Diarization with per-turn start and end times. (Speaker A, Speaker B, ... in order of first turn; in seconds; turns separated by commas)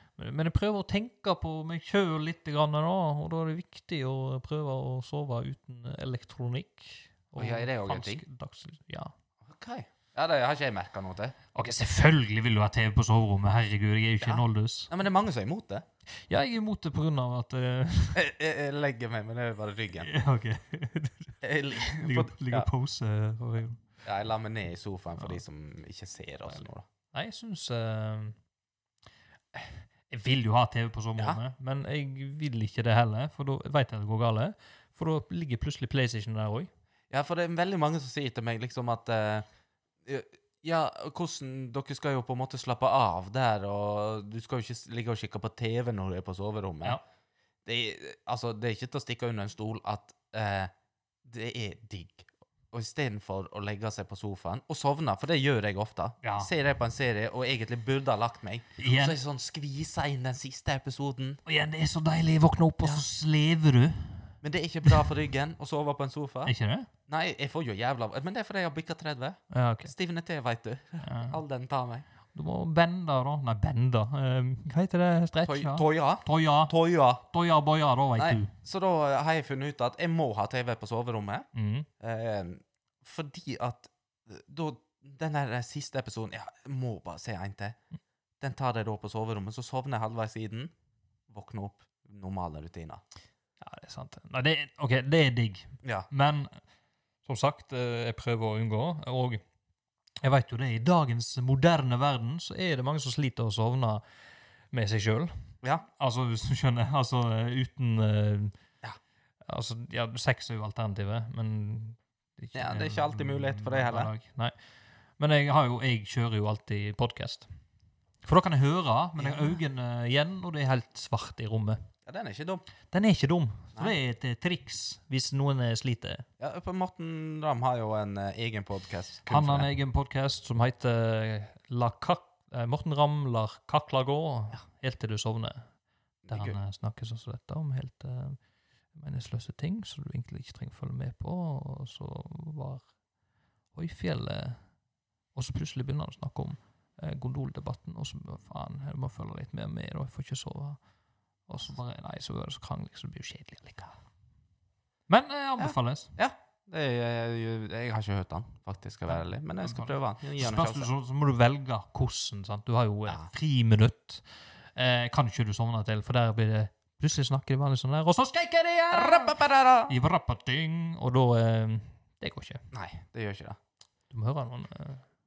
Speaker A: 0.2-9.1, Speaker B: 7.4-8.2, Speaker B: 9.4-11.4, Speaker A: 11.5-14.9, Speaker B: 14.2-15.8, Speaker A: 16.3-18.2, Speaker B: 18.1-20.1, Speaker A: 20.0-23.8, Speaker B: 21.4-22.7, Speaker B: 24.0-26.9, Speaker A: 27.1-28.4, Speaker A: 30.1-36.7, Speaker B: 37.1-39.5, Speaker B: 40.0-47.0, Speaker B: 47.6-50.7, Speaker B: 51.2-61.4, Speaker A: 56.2-56.5, Speaker A: 58.8-59.1, Speaker A: 61.5-64.3, Speaker B: 64.4-66.5, Speaker A: 66.4-66.9, Speaker B: 67.1-72.0, Speaker A: 69.5-69.9, Speaker A: 71.0-71.4, Speaker A: 72.3-78.5, Speaker B: 75.4-77.2, Speaker B: 78.2-81.5, Speaker A: 81.5-81.9, Speaker B: 82.0-87.8, Speaker B: 88.4-90.7, Speaker B: 91.3-93.0, Speaker A: 93.6-96.5, Speaker A: 97.2-99.4, Speaker A: 100.2-104.0, Speaker A: 104.7-105.5, Speaker A: 106.0-108.6, Speaker A: 109.5-114.5, Speaker B: 112.5-114.1, Speaker A: 115.2-117.5, Speaker A: 118.2-121.9, Speaker B: 119.2-119.6, Speaker B: 122.1-122.7, Speaker A: 122.9-126.3, Speaker B: 126.4-129.7, Speaker A: 129.3-135.6, Speaker B: 136.2-136.6, Speaker A: 136.3-138.4, Speaker A: 138.9-142.9, Speaker A: 143.7-144.6, Speaker A: 145.3-150.8, Speaker A: 151.4-153.9, Speaker A: 155.1-156.2, Speaker B: 155.6-160.9, Speaker A: 159.6-172.6, Speaker B: 168.9-169.9, Speaker B: 172.7-173.6, Speaker A: 174.1-175.1